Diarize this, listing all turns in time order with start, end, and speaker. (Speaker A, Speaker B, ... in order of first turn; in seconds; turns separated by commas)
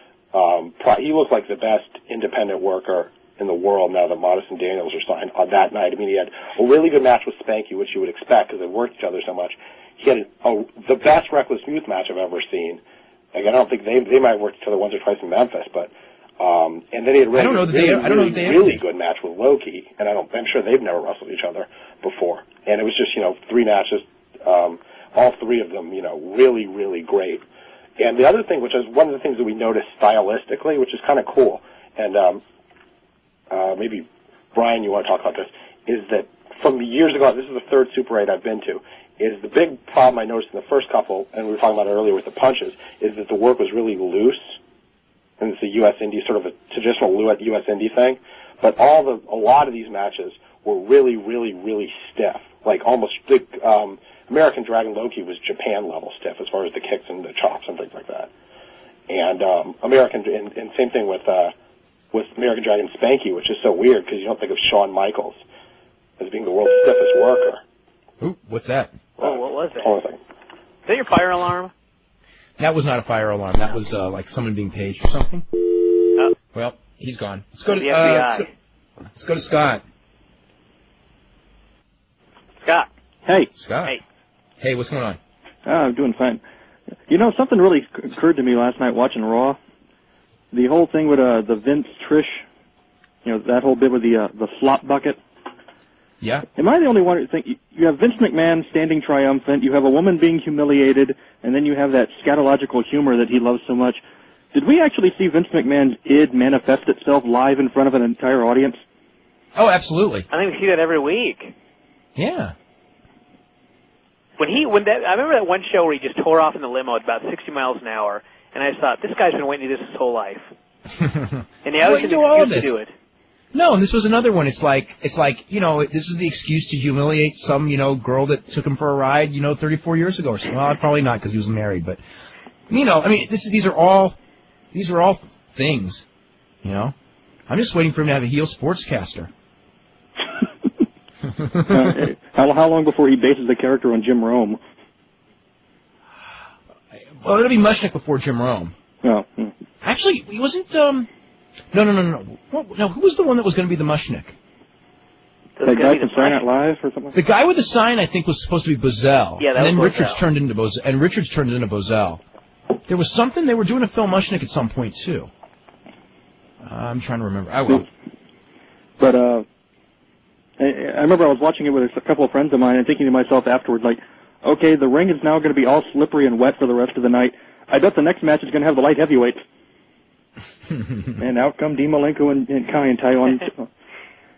Speaker A: 0.3-12.8, Speaker A: 13.3-27.4, Speaker B: 17.3-18.8, Speaker A: 28.0-32.4, Speaker A: 33.5-44.4, Speaker A: 45.4-58.3, Speaker A: 59.1-61.5, Speaker A: 62.1-65.4, Speaker A: 66.2-67.6, Speaker B: 68.2-69.0, Speaker C: 69.2-70.0, Speaker A: 69.2-70.2, Speaker C: 70.9-71.7, Speaker B: 72.6-75.7, Speaker B: 76.5-78.5, Speaker C: 77.7-78.5, Speaker B: 79.1-79.8, Speaker C: 82.6-82.9, Speaker B: 83.5-84.0, Speaker B: 84.6-85.2, Speaker D: 85.7-86.4, Speaker D: 87.1-89.6, Speaker D: 90.5-92.4, Speaker D: 93.2-95.2, Speaker B: 96.2-96.5, Speaker D: 96.6-104.0, Speaker D: 104.5-108.8, Speaker B: 109.6-110.3, Speaker C: 110.3-111.5, Speaker B: 112.2-112.5, Speaker C: 114.4-120.5, Speaker B: 121.0-122.8, Speaker C: 121.7-122.9, Speaker B: 123.5-132.0, Speaker B: 132.7-134.2, Speaker B: 134.7-136.1, Speaker B: 136.6-136.9, Speaker B: 137.5-139.3, Speaker D: 141.6-144.6, Speaker B: 147.2-148.8, Speaker D: 149.0-149.5, Speaker B: 149.8-151.1, Speaker B: 151.7-154.4, Speaker C: 155.6-156.4, Speaker D: 155.6-157.2, Speaker B: 157.1-162.2, Speaker C: 159.4-160.2, Speaker B: 162.9-165.3, Speaker B: 166.6-167.9, Speaker D: 169.0-169.4, Speaker D: 170.6-179.4, Speaker D: 181.2-183.7